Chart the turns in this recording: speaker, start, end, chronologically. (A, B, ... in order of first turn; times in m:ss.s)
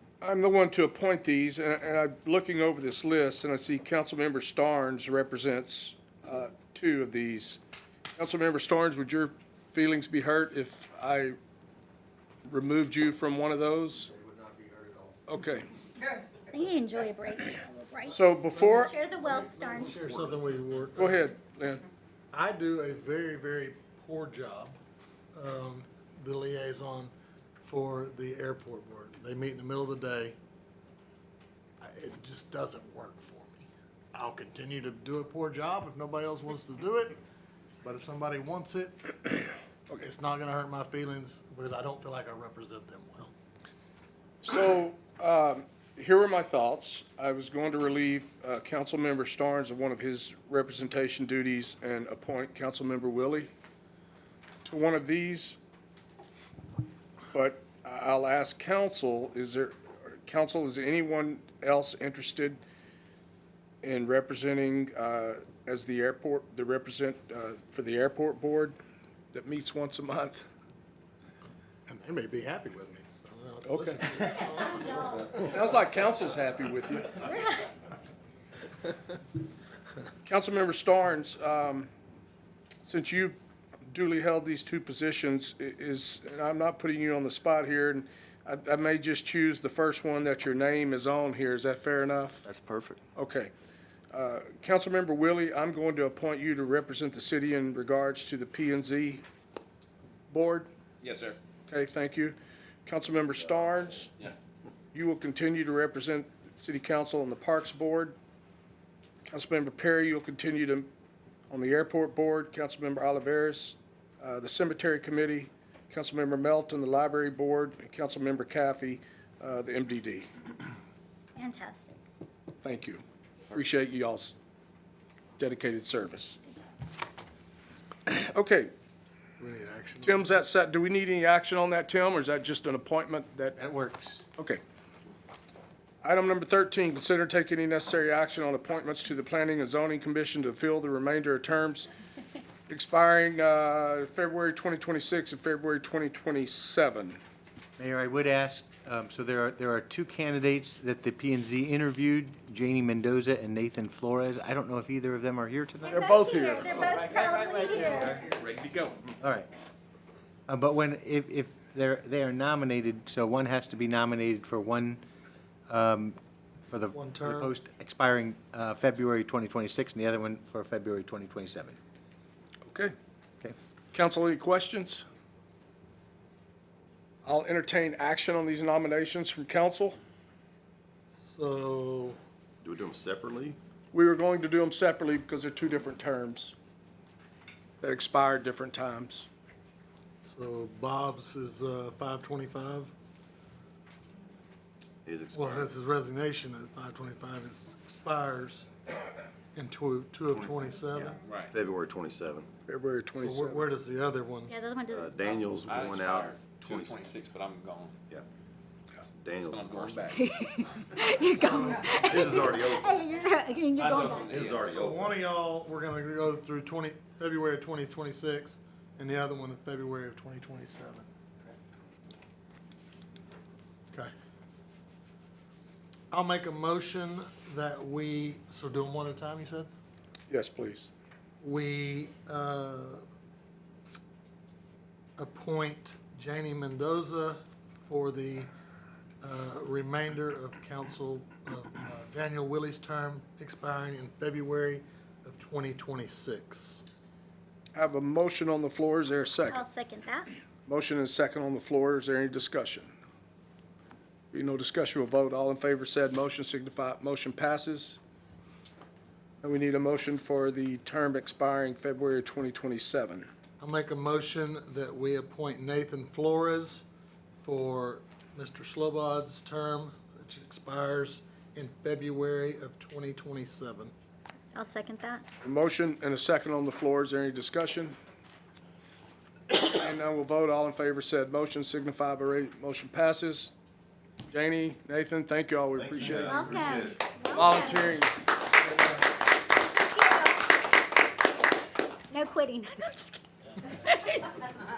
0:00.2-0:07.6 A
0:08.2-0:11.4 A
0:12.4-0:14.1 A
0:14.1-0:15.1 B
0:15.3-0:15.7 A
0:16.4-0:20.1 C
0:18.1-0:18.9 A
0:18.5-0:21.3 B
0:20.9-0:21.8 A
0:22.3-0:24.8 B
0:25.3-0:30.4 B
0:31.8-0:37.2 B
0:37.8-0:43.3 B
0:44.4-0:53.5 A
0:54.6-0:55.6 A
0:57.3-1:02.6 A
1:03.8-1:08.8 A
1:09.3-1:10.4 A
1:11.9-1:15.4 B
1:13.6-1:14.5 A
1:14.6-1:15.0 C
1:15.3-1:17.3 A
1:17.3-1:17.6 C
1:20.2-1:21.9 A
1:22.8-1:32.4 A
1:32.4-1:33.0 D
1:33.2-1:33.5 A
1:34.1-1:39.2 A
1:40.3-1:40.7 A
1:41.0-1:41.4 E
1:41.7-1:44.1 A
1:44.9-1:48.2 A
1:49.2-1:50.9 A
1:51.5-2:00.3 A
2:01.4-2:02.0 C
2:02.6-2:04.3 A
2:05.4-2:06.4 A
2:08.0-2:08.7 A
2:09.4-2:10.4 B
2:10.0-2:13.6 A
2:13.6-2:14.2 F
2:14.4-2:14.6 A
2:16.0-2:21.9 A
2:22.7-2:27.2 A
2:27.8-2:36.1 F
2:35.8-2:38.2 C
2:35.9-2:37.0 A
2:37.2-2:38.2 F
2:38.1-2:39.0 E
2:39.2-2:39.5 F
2:40.5-2:45.0 F
2:45.7-2:51.8 F
2:46.9-2:47.5 B
2:52.7-2:52.9 A
2:53.9-2:55.0 A
2:57.2-3:00.0 A
3:01.1-3:02.2 B
3:02.6-3:03.6 D
3:03.9-3:06.6 A
3:07.8-3:09.3 A
3:10.2-3:12.9 B
3:15.0-3:15.7 D
3:15.3-3:18.7 B
3:19.5-3:21.2 B
3:20.4-3:22.5 D
3:21.2-3:21.5 E
3:22.7-3:23.6 A
3:23.2-3:24.5 B
3:24.5-3:25.2 C
3:24.9-3:27.2 D
3:25.2-3:28.0 E
3:29.1-3:30.2 D
3:29.4-3:30.3 E
3:30.1-3:34.5 C
3:31.3-3:32.5 B
3:31.9-3:33.0 D
3:33.8-3:34.8 E
3:33.8-3:35.2 D
3:34.5-3:41.1 B
3:46.1-3:49.7 B
3:50.3-3:50.9 A
3:51.4-3:53.0 B
3:55.2-3:58.5 B
3:59.2-4:06.8 B
4:07.7-4:09.6 A
4:09.5-4:10.3 C
4:10.7-4:12.9 A
4:14.3-4:18.0 A
4:19.4-4:23.3 A
4:23.6-4:33.9 B
4:34.5-4:35.2 C
4:35.4-4:38.0 A
4:39.5-4:43.5 A
4:44.3-4:46.7 A
4:45.7-4:47.0 D
4:46.0-4:46.9 B
4:46.2-4:48.0 C
4:47.3-4:48.2 A
4:49.7-4:50.7 C
4:52.1-4:54.4 C